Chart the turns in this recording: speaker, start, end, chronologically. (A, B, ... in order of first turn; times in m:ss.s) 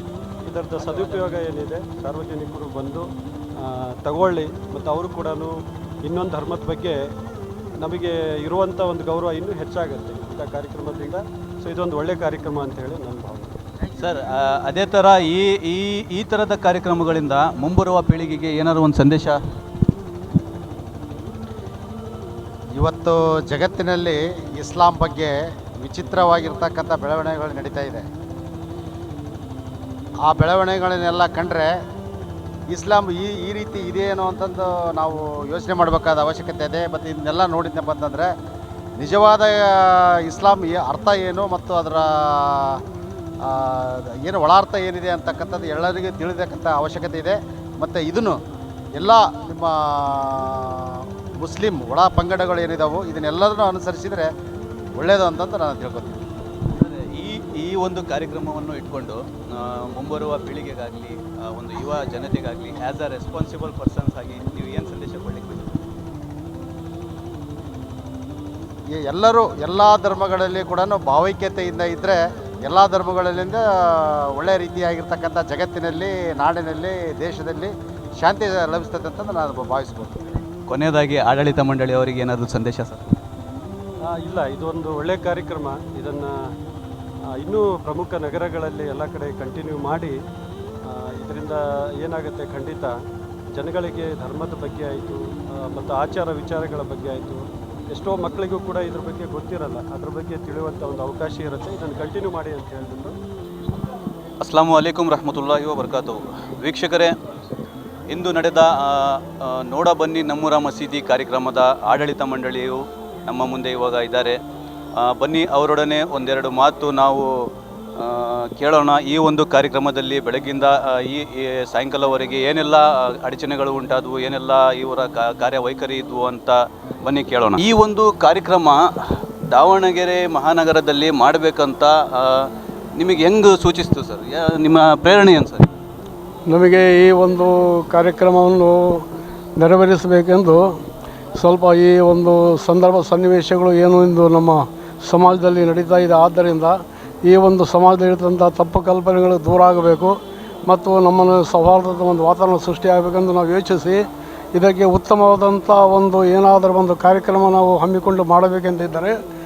0:00.4-0:03.1 A
0:03.6-0:05.5 A
0:06.0-0:07.0 A
0:07.8-0:13.5 A
0:14.0-0:19.4 B
0:22.8-0:25.3 C
0:25.8-0:28.0 C
0:30.2-0:31.7 C
0:32.7-0:38.3 C
0:39.0-0:42.8 C
0:43.4-0:48.4 C
0:49.0-0:54.3 C
0:55.0-0:56.2 C
0:56.7-1:05.8 B
1:09.0-1:20.3 C
1:20.7-1:23.1 B
1:24.1-1:26.3 A
1:27.4-1:30.1 A
1:30.8-1:32.9 A
1:33.5-1:43.1 A
1:44.4-1:47.1 B
1:48.1-1:54.4 B
1:55.0-2:08.8 B
2:09.5-2:15.7 B
2:16.5-2:19.0 D
2:19.6-2:20.7 D
2:21.4-2:30.2 D
2:30.7-2:39.2 D